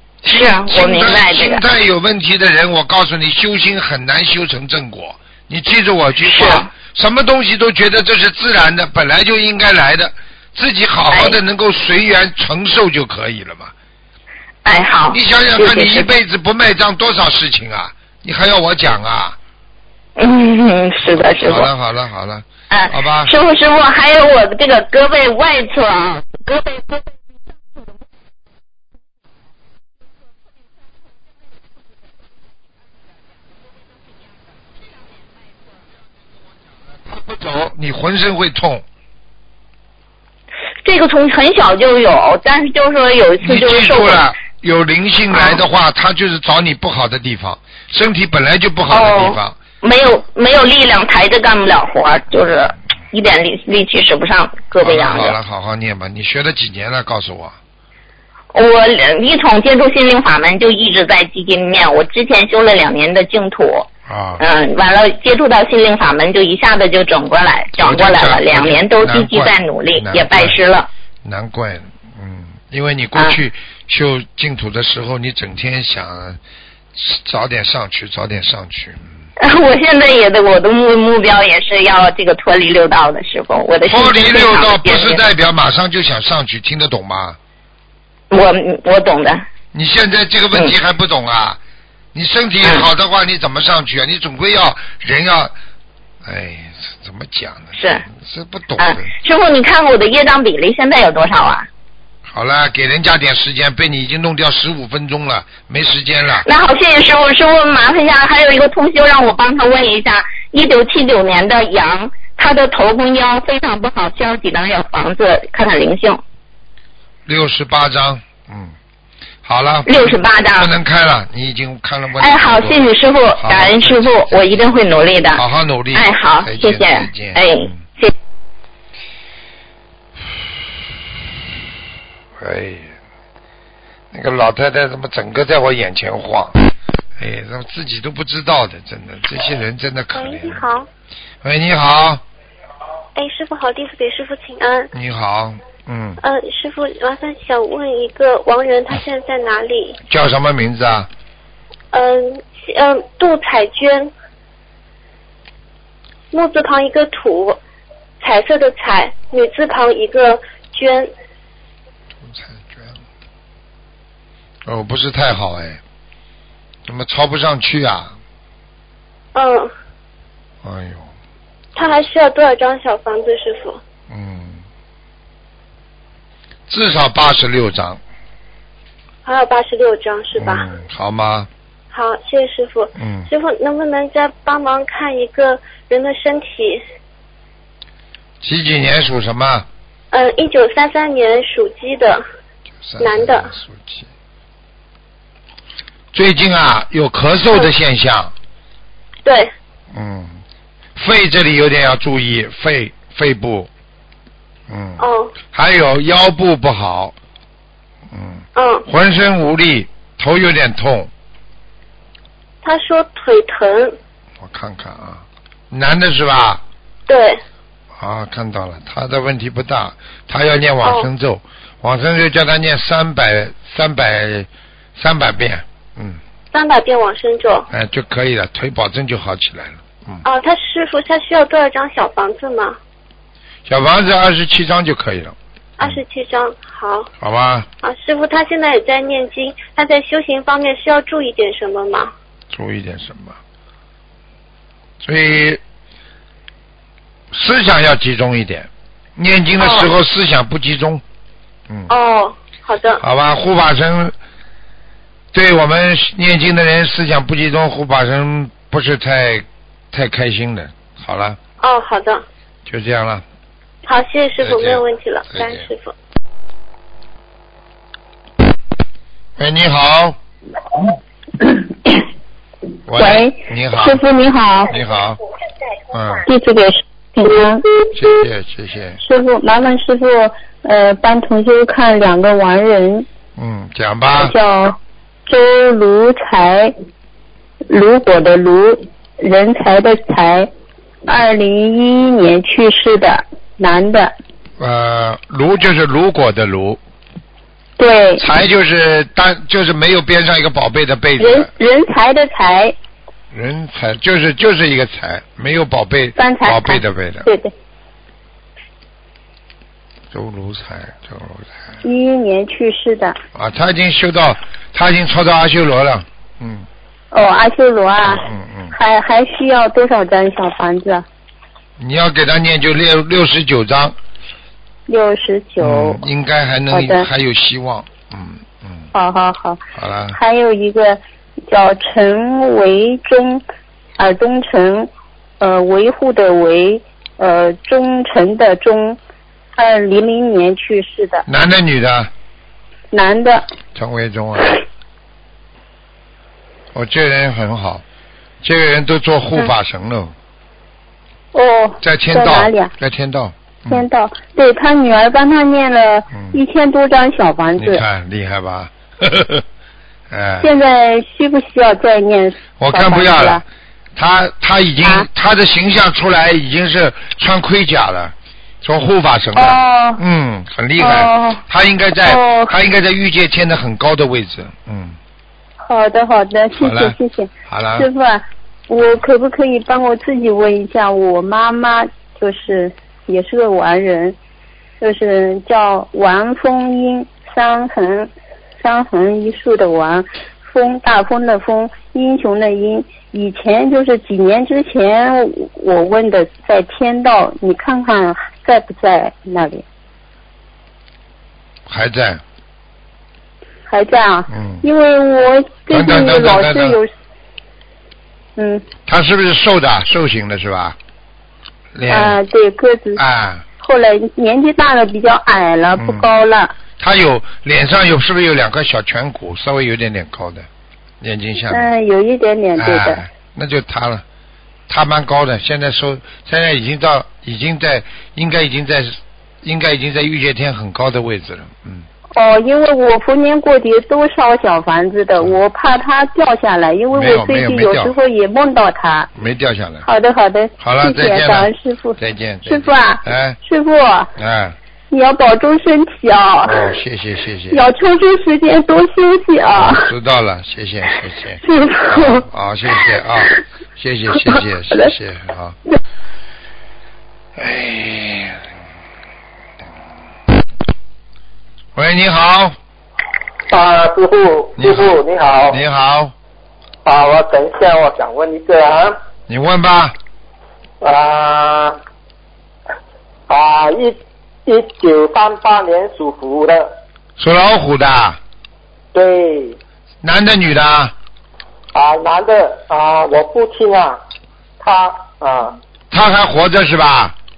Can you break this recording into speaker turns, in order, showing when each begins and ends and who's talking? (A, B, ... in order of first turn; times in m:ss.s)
0:00.2-0:13.7 A
0:00.2-0:01.6 B
0:06.2-0:06.7 B
0:11.1-0:11.4 B
0:14.6-0:16.1 B
0:15.1-0:19.4 A
0:20.2-0:21.7 B
0:21.1-0:23.3 A
0:22.7-0:27.2 B
0:36.9-0:38.8 A
0:40.8-0:44.2 B
0:43.4-0:49.6 A
0:48.9-0:55.4 B
0:54.8-0:57.6 A
0:58.5-1:03.9 B
1:04.1-1:04.4 A
1:04.4-1:10.9 B
1:07.8-1:10.6 A
1:11.2-1:16.4 A
1:16.9-1:19.1 A
1:19.4-1:25.2 B
1:23.8-1:27.4 A
1:28.3-1:29.4 B
1:29.7-1:31.6 A
1:32.1-1:35.5 A
1:36.2-1:39.1 A
1:37.8-1:38.0 B
1:38.8-1:41.7 B
1:42.3-1:46.4 A
1:46.4-1:56.2 B
1:57.2-1:58.8 A
1:59.4-2:04.7 A
1:59.9-2:00.7 B
2:02.2-2:05.4 B
2:05.3-2:07.8 A
2:05.9-2:08.1 B
2:12.4-2:12.9 A
2:14.1-2:16.6 A
2:17.2-2:20.6 A
2:20.1-2:20.9 C
2:21.4-2:22.2 A
2:23.1-2:24.9 C
2:24.9-2:26.2 A
2:26.2-2:30.0 C
2:30.1-2:31.1 A
2:31.9-2:34.1 C
2:36.3-2:37.6 C
2:38.2-2:41.1 C
2:42.2-2:43.0 A
2:44.6-2:45.8 A
2:46.9-2:48.1 A
2:49.3-2:49.7 C
2:50.6-2:51.1 A
2:51.8-2:53.8 C
2:54.1-2:54.6 A
2:56.7-2:58.0 A
2:59.2-3:00.7 C
3:00.4-3:01.5 A
3:01.9-3:06.8 C
3:03.0-3:03.3 A
3:08.4-3:09.7 A
3:10.1-3:12.2 C
3:12.8-3:14.1 A
3:13.0-3:13.5 C
3:16.1-3:18.3 A
3:19.2-3:19.5 C
3:19.9-3:20.4 A
3:21.0-3:23.7 A
3:24.7-3:27.1 A
3:25.0-3:25.4 C
3:28.1-3:31.1 A
3:28.6-3:28.9 C
3:32.6-3:34.0 C
3:34.4-3:36.6 A
3:37.1-3:37.4 C
3:38.0-3:46.2 A
3:46.5-3:47.7 C
3:47.7-3:50.2 A
3:50.2-3:52.8 C
3:53.7-3:56.0 A
3:55.8-3:57.1 C
3:57.2-3:57.7 A
3:57.8-4:02.1 C
4:02.5-4:03.4 A
4:05.0-4:05.6 A
4:07.3-4:11.0 A
4:09.6-4:09.9 C
4:11.9-4:13.0 C
4:13.0-4:14.1 A
4:15.3-4:21.4 A
4:21.6-4:22.2 C
4:22.6-4:23.2 A
4:23.8-4:25.9 C
4:24.4-4:25.6 A
4:29.4-4:30.2 A
4:32.9-4:34.0 A
4:33.0-4:34.7 D
4:34.7-4:35.2 A
4:35.9-4:36.2 A
4:36.3-4:37.6 D
4:37.9-4:39.0 A
4:39.0-4:43.1 D
4:43.4-4:44.3 A
4:44.1-4:46.7 D
4:47.7-4:50.5 D
4:51.0-4:54.1 D
4:54.6-4:56.8 A
4:57.8-4:58.2 D
4:58.2-5:01.5 A
5:01.2-5:02.7 D
5:03.3-5:07.3 A
5:06.2-5:07.5 D
5:10.1-5:11.6 A
5:11.8-5:13.2 D
5:13.3-5:16.7 A
5:17.1-5:21.0 D
5:18.0-5:18.7 A
5:21.8-5:24.0 A
5:24.9-5:26.0 D
5:25.6-5:28.9 A
5:26.7-5:27.1 D
5:28.9-5:29.6 D
5:29.8-5:30.2 A
5:30.1-5:33.4 D
5:34.0-5:39.0 D
5:39.6-5:41.2 D
5:41.3-5:42.1 A
5:42.9-5:43.4 D
5:43.7-5:44.5 A
5:46.7-5:47.8 A
5:48.4-5:50.1 A
5:51.3-5:52.7 D
5:51.8-5:53.8 A
5:53.7-5:57.8 D
5:56.1-5:56.4 A
5:57.6-5:59.4 A
6:00.1-6:00.5 A
6:00.4-6:03.4 D
6:02.6-6:03.4 A
6:04.0-6:15.0 A
6:09.4-6:10.0 D
6:10.8-6:11.4 D
6:12.0-6:12.5 D
6:15.6-6:24.2 D
6:16.6-6:17.9 A
6:24.8-6:39.6 D
6:41.7-6:42.2 A
6:43.7-6:46.9 D
6:44.3-6:44.6 A
6:45.7-6:46.8 A
6:48.4-6:48.6 D
6:48.9-6:50.8 A
6:51.7-6:52.2 A
6:51.9-6:53.0 D
6:53.0-6:53.4 A
6:53.6-6:56.5 D
6:55.8-6:56.1 A
6:56.8-7:00.5 A
7:01.0-7:01.7 A
7:01.5-7:03.0 D
7:02.6-7:04.0 A
7:04.7-7:11.8 A
7:12.1-7:19.1 D
7:16.9-7:17.9 A
7:19.1-7:19.9 A
7:19.8-7:24.1 D
7:20.6-7:23.4 A
7:24.2-7:24.6 A
7:24.9-7:26.7 D
7:26.4-7:27.6 A
7:27.5-7:29.9 D
7:29.5-7:35.6 A
7:37.4-7:38.4 A
7:41.8-7:42.6 A
7:43.5-7:45.6 E
7:44.6-7:46.1 A
7:46.8-7:49.0 E
7:49.3-7:50.0 A
7:50.8-7:51.8 E
7:53.3-7:56.8 E
7:57.2-7:58.2 A
7:58.9-7:59.6 E
8:00.0-8:00.9 A
8:01.7-8:04.0 E
8:04.6-8:05.6 E
8:05.9-8:07.2 A